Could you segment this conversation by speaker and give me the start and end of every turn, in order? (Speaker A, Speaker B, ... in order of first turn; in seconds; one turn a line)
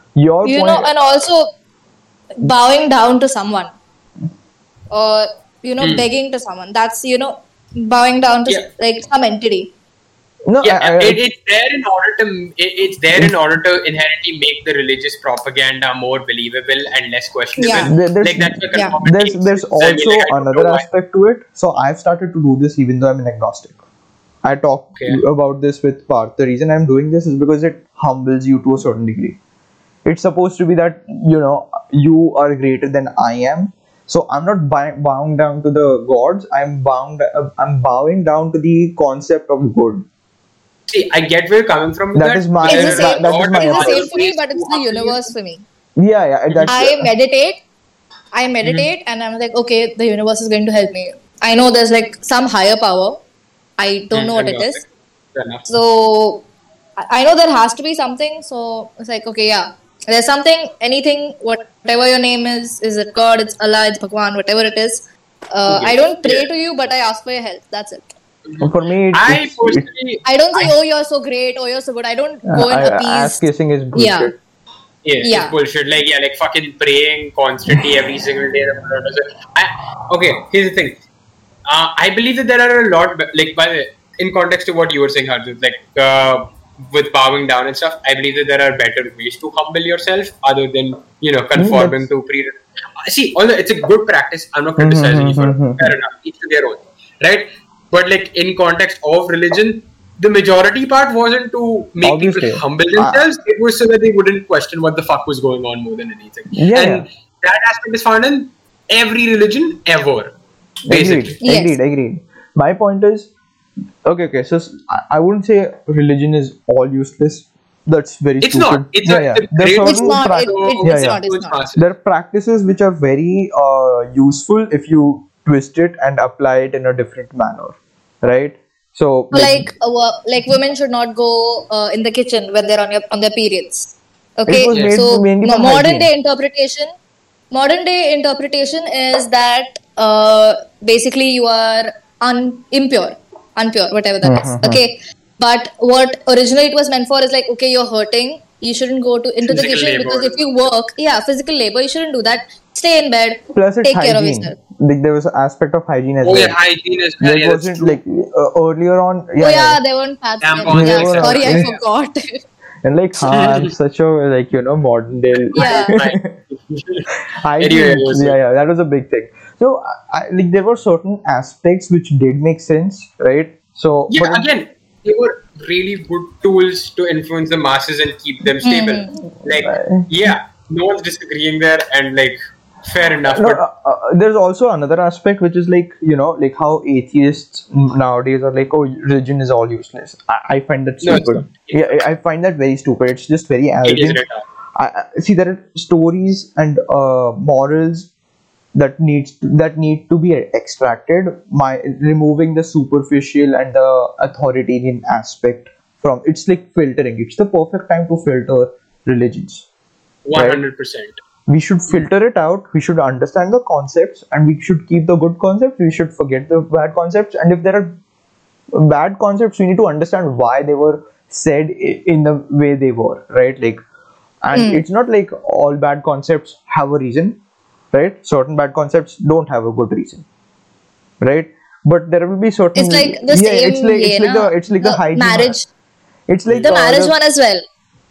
Speaker A: 0.1-0.9
Speaker B: 0.4-1.5
Speaker B: 2.4-3.7
Speaker B: 4.9-9.7
Speaker C: 5.8-6.1
Speaker A: 10.5-11.2
Speaker C: 10.6-20.9
Speaker B: 17.6-17.9
Speaker A: 17.8-23.8
Speaker A: 24.4-29.4
Speaker A: 30.1-40.0
Speaker C: 40.9-45.3
Speaker A: 42.1-44.1
Speaker B: 42.7-45.6
Speaker A: 46.0-47.1
Speaker B: 46.7-47.6
Speaker B: 48.4-53.2
Speaker C: 48.6-48.9
Speaker B: 53.8-54.8
Speaker C: 54.1-55.7
Speaker B: 55.7-56.4
Speaker B: 57.0-68.1
Speaker C: 65.7-66.5
Speaker C: 68.5-70.7
Speaker A: 68.6-69.8
Speaker B: 70.3-74.3
Speaker A: 72.5-74.4
Speaker C: 75.0-81.0
Speaker B: 75.2-75.5
Speaker C: 81.7-110.3
Speaker A: 91.6-92.1
Speaker A: 94.8-95.9
Speaker A: 102.0-103.3
Speaker A: 106.6-107.0
Speaker A: 110.9-113.3
Speaker C: 110.9-111.4
Speaker B: 111.4-111.8
Speaker A: 114.0-121.2
Speaker C: 118.4-121.9
Speaker B: 119.8-121.6
Speaker A: 121.8-129.7
Speaker B: 129.3-136.9
Speaker A: 134.5-136.1
Speaker C: 134.7-135.0
Speaker B: 137.5-154.6
Speaker A: 144.2-144.8
Speaker C: 149.5-150.4
Speaker A: 153.5-156.6
Speaker C: 156.2-158.0
Speaker A: 157.2-159.8
Speaker B: 159.4-162.4
Speaker C: 160.4-161.8
Speaker A: 160.7-161.8
Speaker A: 162.8-166.3
Speaker C: 163.3-163.7
Speaker C: 165.3-168.4
Speaker B: 165.6-165.9
Speaker A: 167.4-174.4
Speaker C: 174.1-183.6
Speaker B: 178.6-179.2
Speaker A: 179.5-180.1
Speaker A: 183.3-194.2
Speaker C: 191.0-192.0
Speaker C: 193.8-194.4
Speaker A: 194.8-198.1
Speaker A: 198.7-209.7
Speaker C: 210.3-211.2
Speaker A: 210.3-210.6
Speaker A: 211.5-218.0
Speaker A: 218.7-223.8
Speaker A: 224.4-227.4
Speaker B: 224.5-224.8
Speaker A: 227.9-230.2
Speaker A: 231.2-235.6
Speaker B: 232.7-235.7
Speaker A: 236.3-237.2
Speaker C: 236.5-236.7
Speaker B: 236.6-237.6